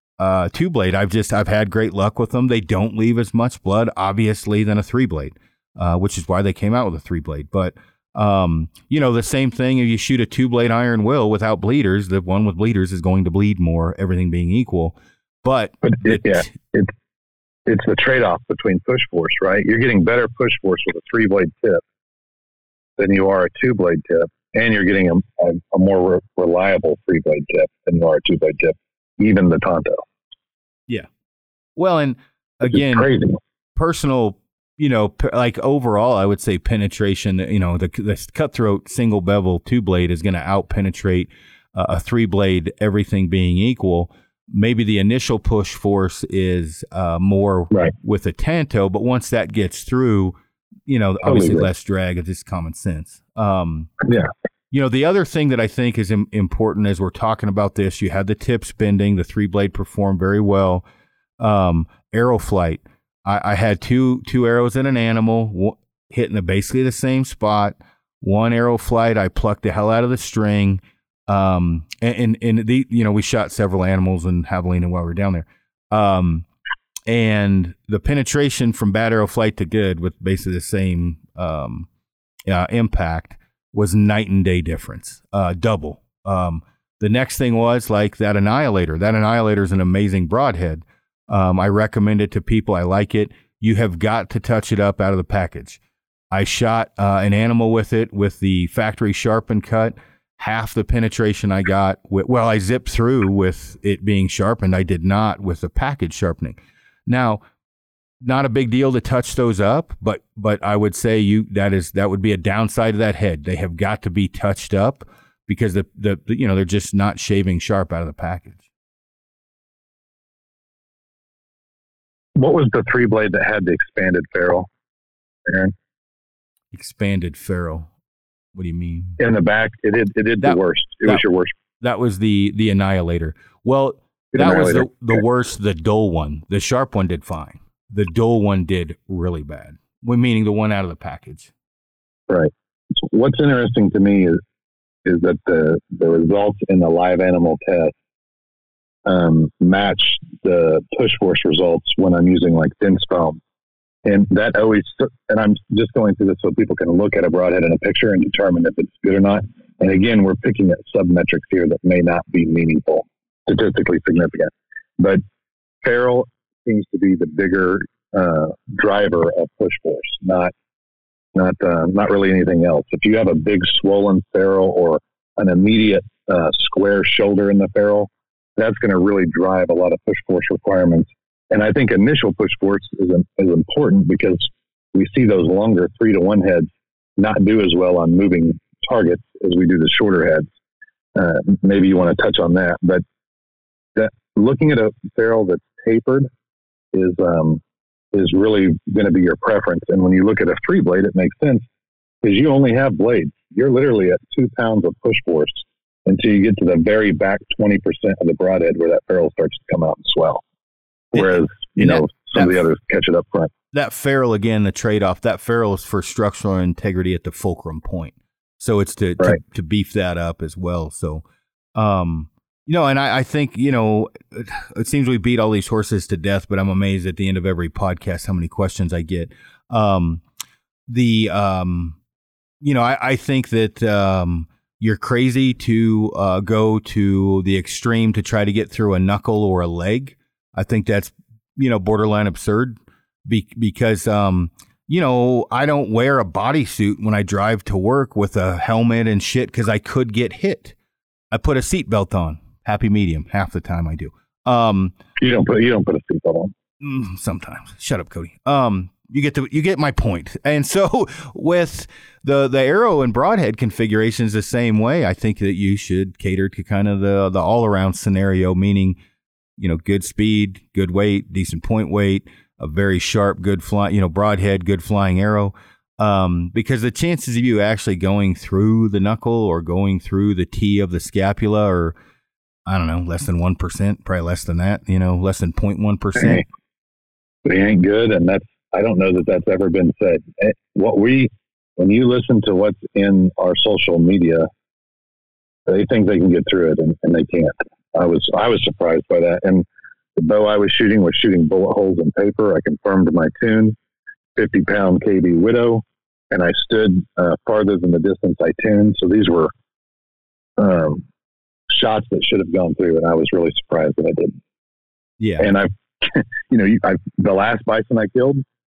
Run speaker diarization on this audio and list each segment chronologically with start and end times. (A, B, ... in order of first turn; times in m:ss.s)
0:00.2-0:16.5 A
0:15.8-0:16.9 B
0:17.7-0:21.8 B
0:23.0-0:30.0 B
0:31.8-0:33.1 A
0:32.7-0:33.4 B
0:33.8-0:50.3 A
0:50.9-0:53.9 A
0:51.2-0:51.7 B
0:54.7-1:00.8 A
1:01.4-1:16.4 A
1:17.1-1:21.9 A
1:22.5-1:35.8 A
1:36.3-1:47.4 A
1:48.2-1:58.6 A
2:02.4-2:04.7 B
2:05.5-2:05.7 B
2:06.7-2:07.9 A
2:08.5-2:09.2 A
2:09.2-2:11.5 B
2:10.4-2:11.2 A
2:11.8-2:21.5 A
2:14.3-2:15.2 B
2:22.3-2:24.4 B
2:25.0-2:27.9 B
2:29.0-2:33.4 B
2:34.0-2:45.2 B
2:45.8-2:50.5 B
2:51.3-3:10.5 B
3:11.2-3:13.0 B
3:14.0-3:16.3 B
3:16.9-3:17.6 B
3:18.1-3:21.6 B
3:22.2-3:30.4 B
3:31.1-3:33.5 B
3:31.1-3:32.6 A
3:33.7-3:41.2 A
3:41.7-3:50.2 A
3:50.9-3:52.0 A
3:52.6-4:10.7 A
4:11.3-4:14.9 A
4:15.2-4:16.5 B
4:16.8-4:29.0 A
4:29.6-4:41.9 A
4:42.6-4:46.5 A
4:47.4-4:54.5 B
4:55.7-5:03.8 B
5:04.4-5:09.5 B
5:10.6-5:11.0 B
5:11.7-5:14.4 B
5:15.2-5:15.5 A
5:15.4-5:18.4 B